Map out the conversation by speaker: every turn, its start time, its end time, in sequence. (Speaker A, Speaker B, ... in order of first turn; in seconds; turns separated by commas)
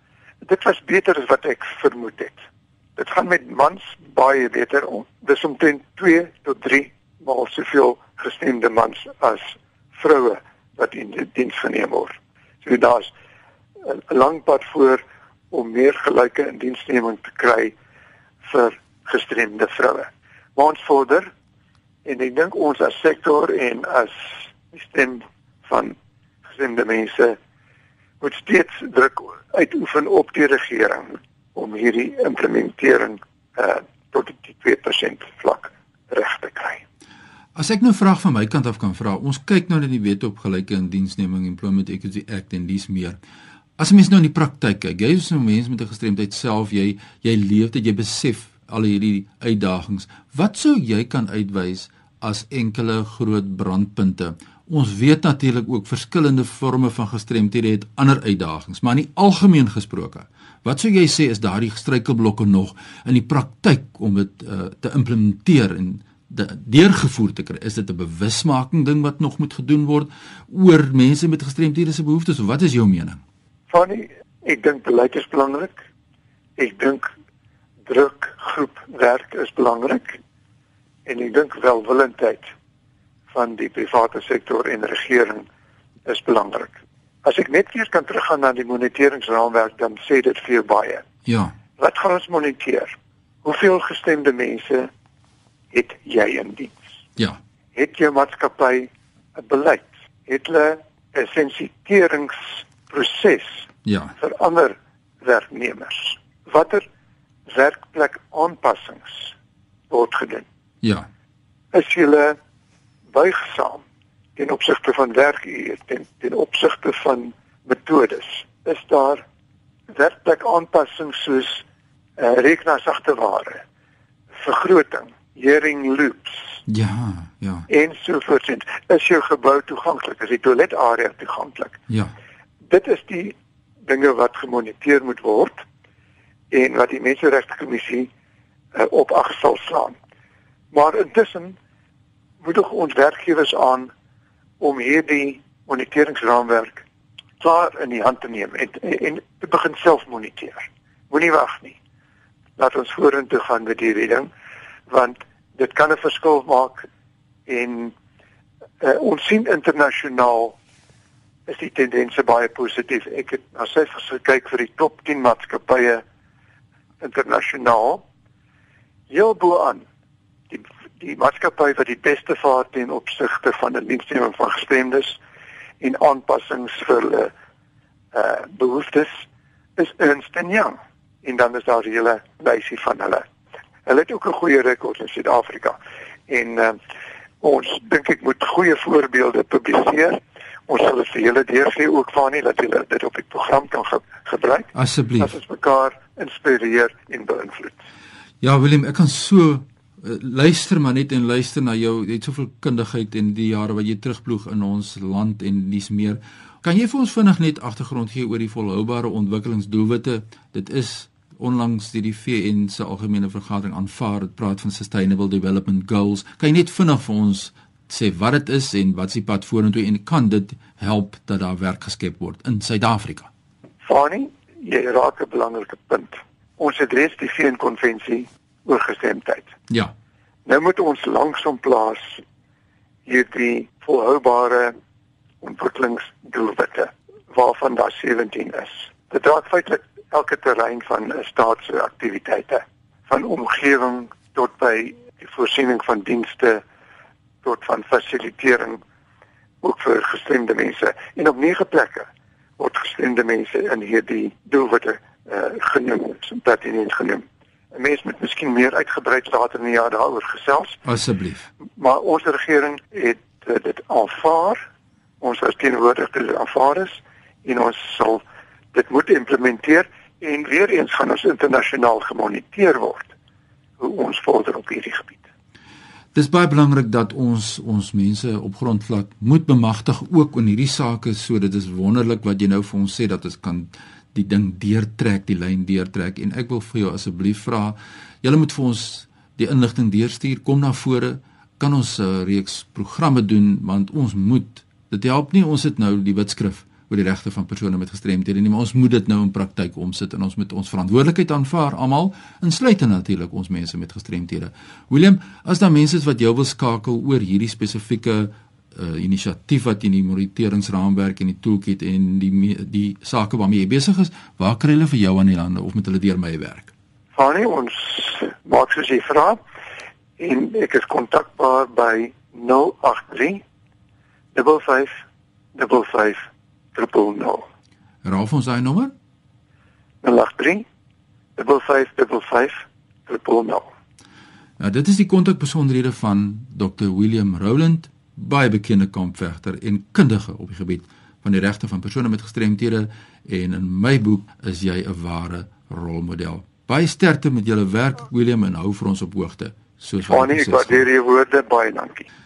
Speaker A: 0.5-2.4, Speaker A: 3.0-13.1, Speaker A: 13.8-15.0, Speaker A: 15.5-17.7, Speaker A: 18.4-21.3, Speaker A: 22.1-25.9, Speaker A: 26.5-27.4, Speaker A: 28.2-36.8, Speaker B: 37.5-43.2, Speaker B: 43.8-73.2, Speaker A: 73.7-75.8, Speaker A: 76.6-77.1, Speaker A: 77.9-80.2, Speaker A: 81.1-82.5, Speaker A: 83.3-85.5, Speaker A: 86.1-91.0, Speaker B: 91.3-91.5, Speaker A: 91.8-92.9, Speaker A: 93.4-94.9, Speaker A: 95.7-96.8, Speaker A: 97.8-103.7, Speaker B: 103.8-104.2, Speaker A: 104.2-106.8, Speaker A: 107.5-109.3, Speaker A: 109.9-110.5, Speaker B: 110.8-111.1, Speaker A: 111.7-112.4, Speaker A: 113.1-113.8, Speaker A: 114.4-119.2, Speaker A: 119.9-121.6, Speaker A: 122.2-123.6, Speaker A: 124.3-126.6, Speaker B: 126.7-127.7, Speaker A: 127.7-131.8, Speaker A: 132.7-133.3, Speaker A: 133.8-135.6, Speaker A: 136.5-138.1, Speaker A: 138.8-140.0, Speaker A: 140.7-141.6, Speaker A: 142.4-143.9, Speaker A: 144.6-146.8, Speaker A: 147.4-151.8, Speaker A: 152.6-154.3, Speaker A: 154.9-156.9, Speaker A: 157.5-157.9, Speaker A: 158.8-160.6, Speaker A: 161.5-166.0, Speaker A: 167.0-168.0, Speaker A: 169.1-169.8, Speaker A: 170.5-175.2, Speaker A: 175.8-177.3, Speaker A: 178.1-179.1, Speaker A: 179.8-183.2, Speaker A: 183.9-186.8, Speaker A: 187.4-197.8, Speaker B: 194.8-195.3, Speaker B: 198.4-223.3, Speaker A: 223.8-229.5, Speaker A: 230.5-232.2, Speaker A: 233.1-234.7, Speaker A: 235.4-246.6, Speaker A: 247.4-248.8, Speaker A: 249.6-252.1, Speaker A: 252.6-260.8, Speaker B: 260.9-261.5, Speaker A: 261.8-264.6, Speaker A: 265.2-268.2, Speaker A: 268.7-273.1, Speaker A: 273.8-275.2, Speaker B: 276.1-316.7, Speaker A: 317.1-319.4, Speaker A: 320.2-323.4, Speaker A: 324.3-325.0, Speaker A: 325.6-327.5, Speaker B: 328.1-328.9, Speaker A: 330.0-330.6, Speaker A: 331.4-333.7, Speaker B: 334.6-350.8, Speaker A: 350.1-352.1